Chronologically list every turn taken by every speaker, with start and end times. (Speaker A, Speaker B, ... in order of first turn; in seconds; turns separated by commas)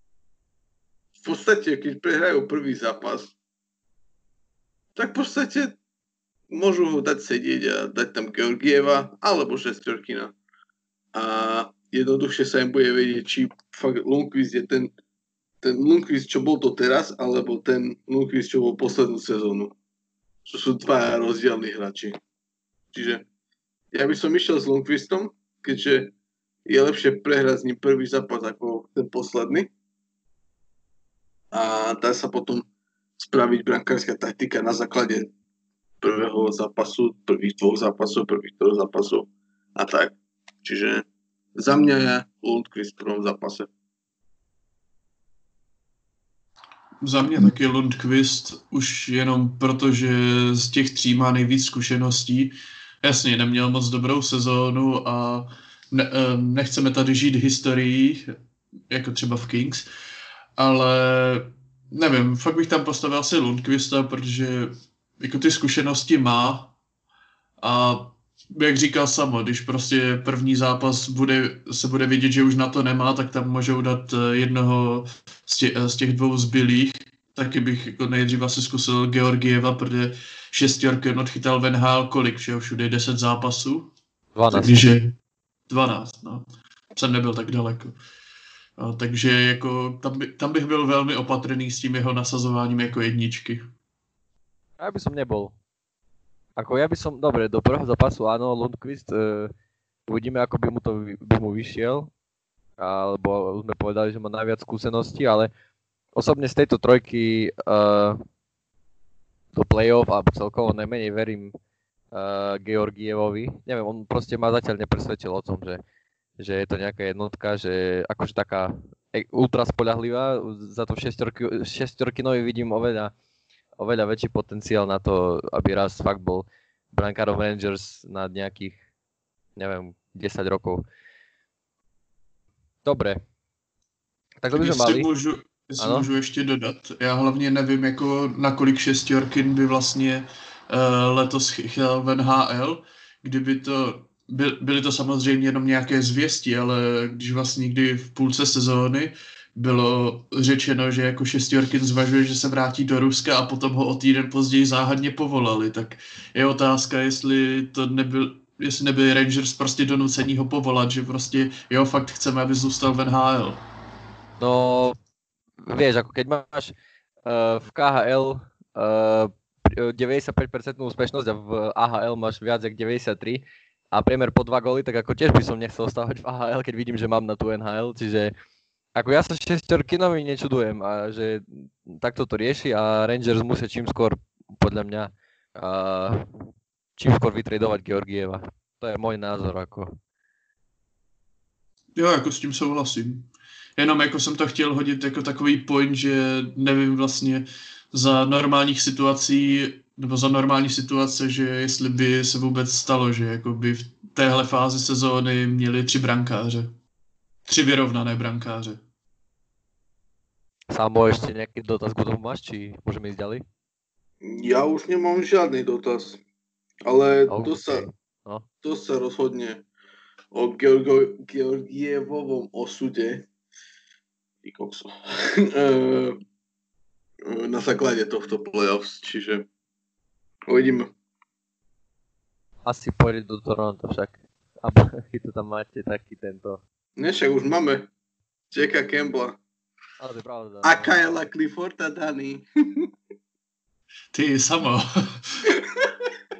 Speaker A: 1.2-3.3, Speaker A: 5.0-5.8, Speaker A: 6.5-10.3, Speaker A: 11.1-14.9, Speaker A: 15.6-19.7, Speaker A: 20.4-22.1, Speaker A: 22.9-23.2, Speaker A: 23.9-26.1, Speaker A: 26.6-29.7, Speaker A: 31.5-32.6, Speaker A: 33.2-35.3, Speaker A: 36.0-41.0, Speaker A: 41.6-43.7, Speaker B: 47.0-58.3, Speaker B: 58.9-59.9, Speaker B: 60.6-66.7, Speaker B: 67.6-83.9, Speaker C: 84.3-84.8, Speaker B: 84.5-85.1, Speaker B: 85.7-88.0, Speaker B: 88.8-93.7, Speaker C: 94.8-95.5, Speaker C: 96.6-99.5, Speaker C: 100.1-102.1, Speaker C: 102.8-105.5, Speaker C: 106.1-108.2, Speaker C: 109.5-111.5, Speaker C: 112.1-115.8, Speaker C: 116.4-123.1, Speaker C: 123.8-128.8, Speaker C: 129.6-130.8, Speaker C: 132.8-133.2, Speaker C: 134.4-135.1, Speaker B: 134.5-163.6, Speaker C: 135.8-136.1, Speaker C: 164.4-164.9, Speaker C: 165.6-166.7, Speaker C: 167.2-178.3, Speaker C: 178.9-186.2, Speaker C: 187.0-189.9, Speaker B: 191.9-206.7, Speaker B: 207.5-208.8, Speaker C: 210.7-213.4, Speaker A: 214.2-216.2, Speaker A: 216.8-217.8, Speaker C: 217.3-218.4, Speaker A: 218.6-219.6, Speaker A: 220.3-223.3, Speaker A: 224.4-226.2, Speaker A: 227.2-229.5, Speaker A: 230.5-230.9, Speaker C: 232.6-236.6, Speaker A: 237.0-237.9, Speaker A: 238.5-239.4, Speaker C: 240.0-241.1, Speaker A: 240.6-242.9, Speaker B: 244.1-245.5, Speaker A: 245.6-245.8